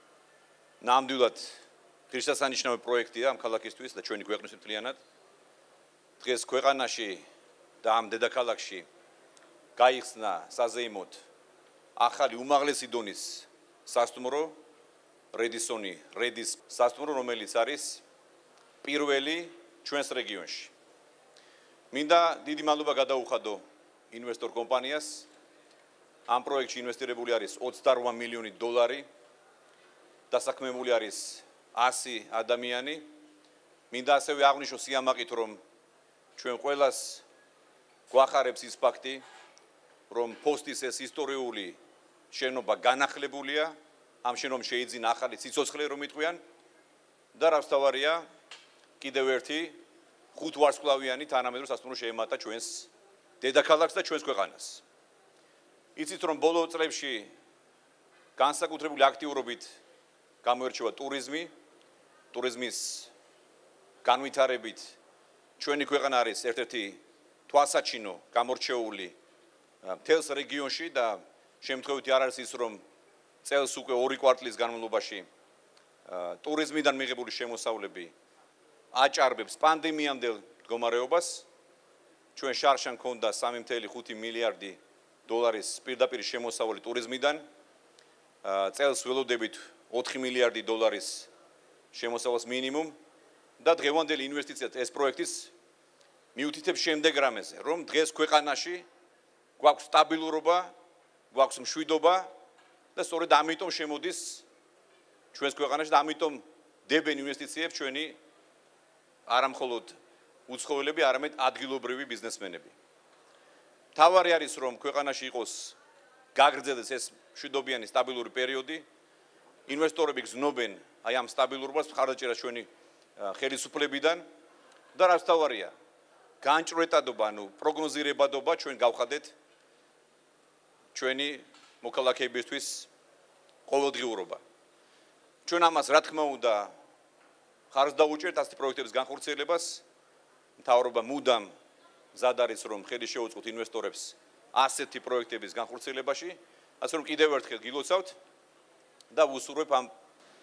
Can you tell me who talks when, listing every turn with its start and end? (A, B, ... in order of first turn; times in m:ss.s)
0:00.8-0:05.0 A
0:06.2-0:07.2 A
0:07.8-0:08.8 A
0:09.8-0:11.2 A
0:12.0-0:14.5 A
0:15.3-0:18.0 A
0:18.8-0:20.7 A
0:21.9-0:25.3 A
0:26.3-0:29.0 A
0:30.3-0:33.1 A
0:33.9-0:35.6 A
0:36.4-0:37.2 A
0:38.1-0:39.2 A
0:40.1-0:41.8 A
0:42.3-0:46.4 A
0:47.3-0:48.2 A
0:49.0-0:49.8 A
0:50.3-0:52.9 A
0:53.4-0:54.8 A
0:56.0-0:57.3 A
0:58.4-0:59.8 A
1:00.4-1:01.5 A
1:02.3-1:03.1 A
1:04.0-1:05.0 A
1:05.6-1:09.2 A
1:09.8-1:12.8 A
1:13.4-1:15.3 A
1:16.1-1:18.1 A
1:18.9-1:21.4 A
1:22.3-1:27.4 A
1:28.4-1:31.3 A
1:31.9-1:33.0 A
1:33.6-1:35.5 A
1:36.3-1:38.8 A
1:39.6-1:40.7 A
1:41.3-1:42.3 A
1:42.9-1:44.4 A
1:45.3-1:48.2 A
1:49.3-1:50.0 A
1:50.5-1:52.7 A
1:53.9-1:55.8 A
1:56.3-1:58.8 A
1:59.7-2:02.7 A
2:03.2-2:04.2 A
2:04.9-2:05.7 A
2:06.4-2:09.3 A
2:10.9-2:12.9 A
2:13.7-2:14.4 A
2:15.4-2:16.7 A
2:17.7-2:19.8 A
2:20.6-2:21.5 A
2:22.1-2:28.2 A
2:29.1-2:29.9 A